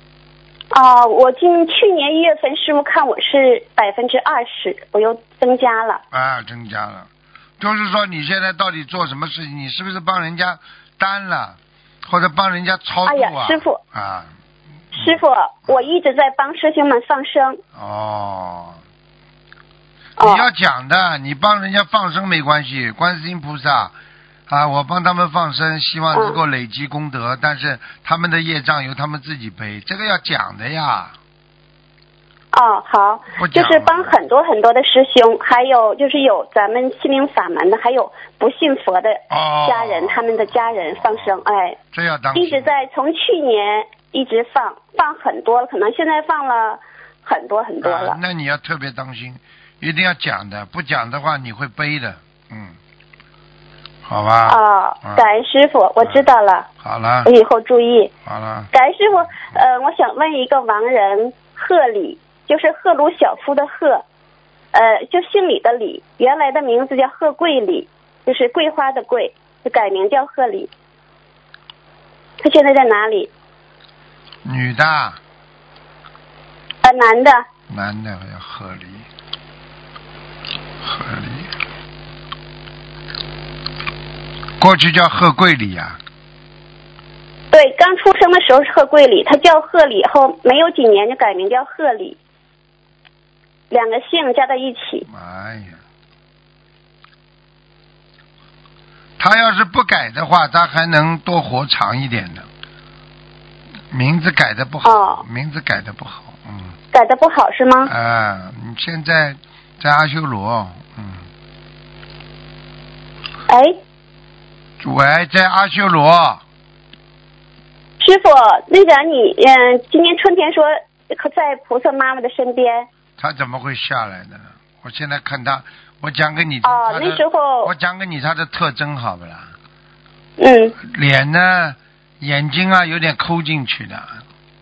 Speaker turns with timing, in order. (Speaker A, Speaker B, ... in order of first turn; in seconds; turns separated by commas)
Speaker A: 0.7-6.0, Speaker B: 6.1-14.3, Speaker A: 13.1-13.8, Speaker A: 14.9-17.6, Speaker B: 17.8-18.8, Speaker A: 20.2-20.5, Speaker B: 20.2-23.9, Speaker B: 24.5-31.1, Speaker A: 26.1-26.4, Speaker A: 32.5-41.8, Speaker B: 33.4-34.2, Speaker B: 39.3-41.4, Speaker B: 41.9-42.9, Speaker A: 42.3-48.2, Speaker B: 47.8-52.8, Speaker B: 54.1-55.3, Speaker A: 54.5-56.7, Speaker B: 56.8-57.3, Speaker A: 57.2-58.1, Speaker B: 58.2-58.7, Speaker A: 58.7-64.0, Speaker A: 64.7-70.7, Speaker A: 72.4-73.3, Speaker B: 74.5-75.2, Speaker A: 76.8-77.4, Speaker B: 77.7-79.0, Speaker B: 80.8-81.5, Speaker B: 84.6-86.0, Speaker A: 87.5-92.2, Speaker A: 93.7-95.1, Speaker B: 95.1-95.8, Speaker B: 99.2-102.5, Speaker B: 103.9-106.8, Speaker A: 104.8-105.2, Speaker A: 106.9-107.9, Speaker B: 107.9-111.3, Speaker A: 113.5-113.8, Speaker B: 114.8-116.4, Speaker A: 118.0-122.9, Speaker B: 123.2-129.5, Speaker A: 126.6-127.7, Speaker A: 130.4-130.8, Speaker B: 130.8-134.2